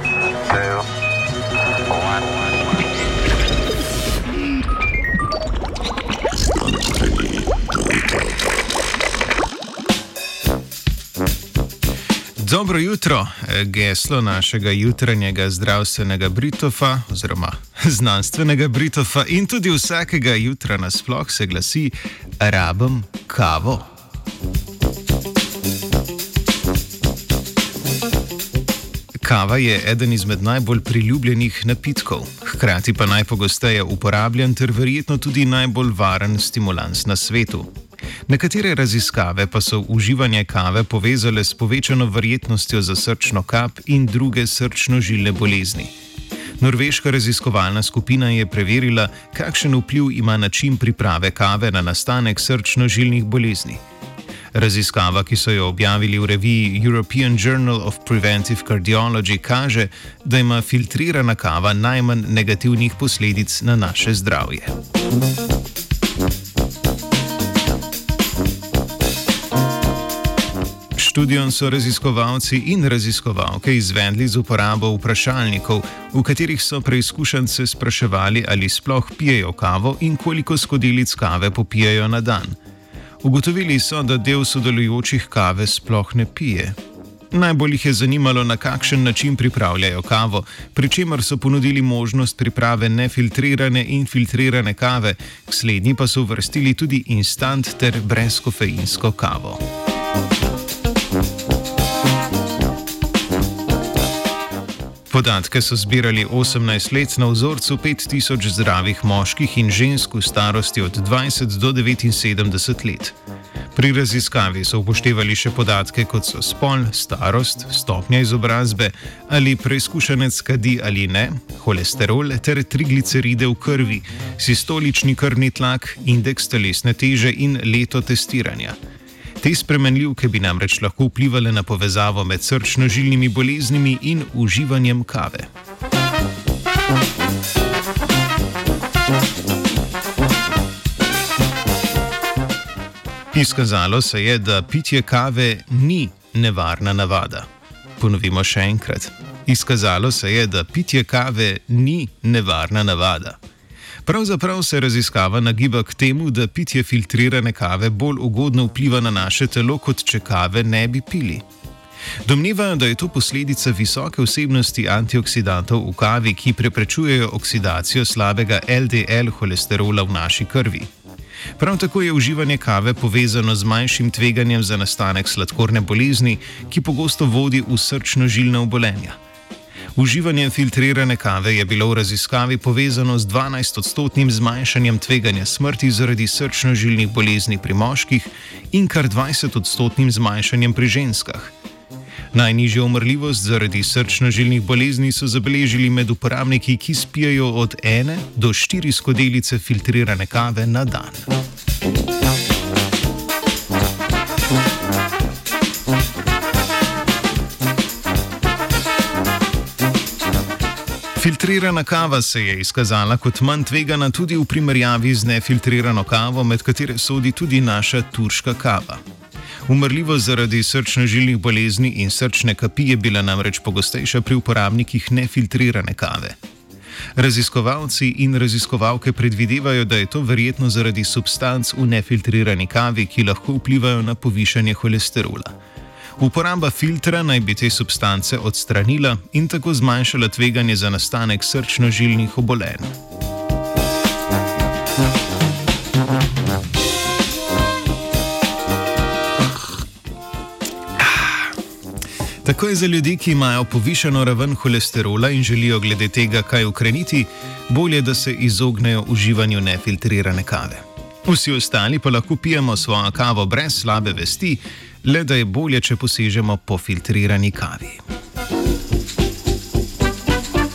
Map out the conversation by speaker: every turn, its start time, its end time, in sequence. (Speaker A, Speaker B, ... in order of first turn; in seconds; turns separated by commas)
Speaker A: 12.4-23.9, Speaker A: 29.2-37.7, Speaker A: 38.3-45.9, Speaker A: 46.6-53.8, Speaker A: 54.5-64.7, Speaker A: 70.9-82.6, Speaker A: 83.2-86.8, Speaker A: 87.3-99.6, Speaker A: 105.1-113.1, Speaker A: 113.7-128.8, Speaker A: 129.4-135.5, Speaker A: 143.3-147.5, Speaker A: 148.0-153.4, Speaker A: 154.0-161.4, Speaker A: 162.2-170.9, Speaker A: 171.6-179.2, Speaker A: 179.9-191.5, Speaker A: 192.3-201.3, Speaker A: 211.2-219.0, Speaker A: 219.7-226.3, Speaker A: 227.2-235.5, Speaker A: 236.2-242.9, Speaker A: 251.0-251.5, Speaker A: 252.4-268.0